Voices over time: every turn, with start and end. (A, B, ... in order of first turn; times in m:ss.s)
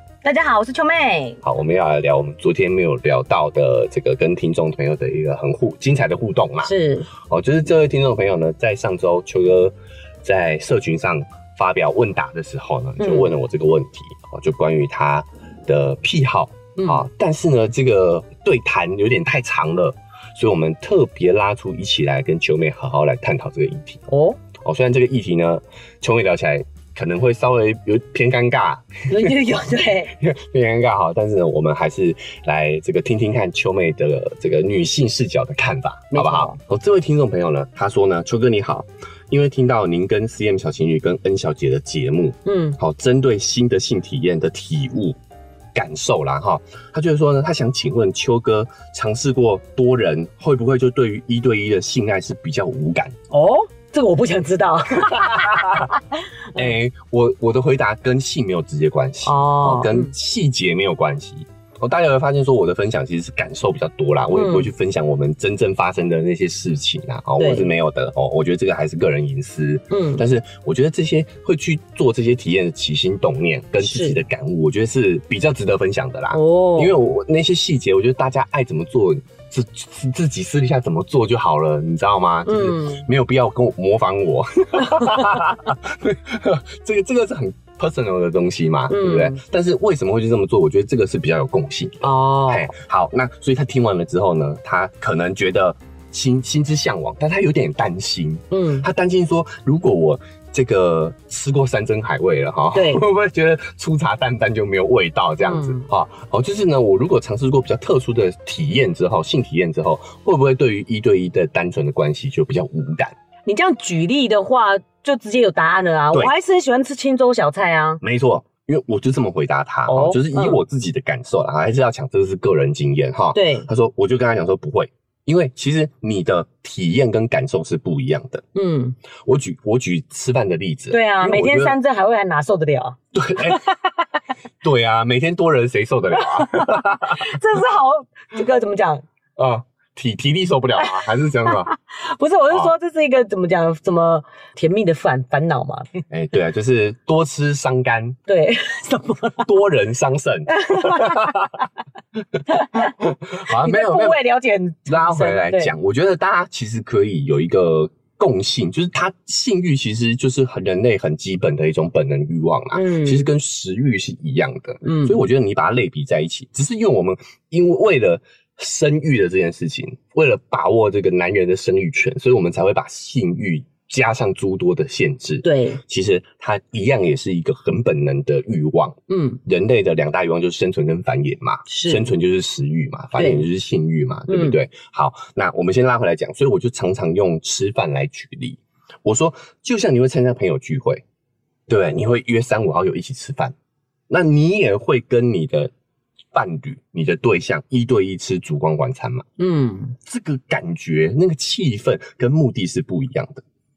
0:00.2-0:01.4 A
0:01.4-0:24.0 B
0:06.6-0:07.1 A
0:13.0-0:13.3 A
0:16.8-0:17.0 A
0:24.1-0:24.4 A
0:24.6-0:29.3 B
0:29.1-0:30.1 A
0:30.1-0:45.2 B
0:36.1-0:36.6 A
0:42.4-0:42.8 A
0:45.8-0:53.2 B
0:53.3-0:56.7 A
0:55.0-0:55.9 B
0:56.6-1:53.2 B
0:59.3-1:00.1 A
1:04.3-1:04.7 A
1:07.4-1:07.7 A
1:09.9-1:10.2 A
1:13.8-1:14.2 A
1:16.3-1:17.0 A
1:22.4-1:23.1 A
1:24.8-1:25.4 A
1:28.9-1:29.4 A
1:32.0-1:32.7 A
1:38.5-1:38.9 A
1:42.7-1:43.0 A
1:45.4-1:45.8 A
1:53.5-1:58.0 A
1:58.0-2:08.4 B
1:59.9-2:00.6 A
2:03.3-2:03.7 A
2:08.6-2:09.0 A
2:09.2-2:11.8 B
2:10.9-2:14.0 A
2:13.1-2:13.6 B
2:14.6-2:17.3 B
2:16.1-2:19.0 A
2:19.4-2:21.7 B
2:20.8-2:26.0 A
2:26.1-2:28.2 B
2:28.3-2:29.6 A
2:29.4-2:31.6 B
2:30.5-2:31.6 A
2:32.4-2:34.2 B
2:32.5-2:35.7 A
2:34.9-3:11.0 B
2:42.7-2:43.3 A
2:44.8-2:45.2 A
2:55.4-2:55.8 A
2:59.1-2:59.4 A
3:01.7-3:02.1 A
3:03.2-3:03.4 A
3:04.3-3:04.6 A
3:11.7-3:13.6 B
3:14.1-3:15.7 B
3:16.3-3:19.3 B
3:19.4-3:20.0 A
3:20.0-3:23.4 B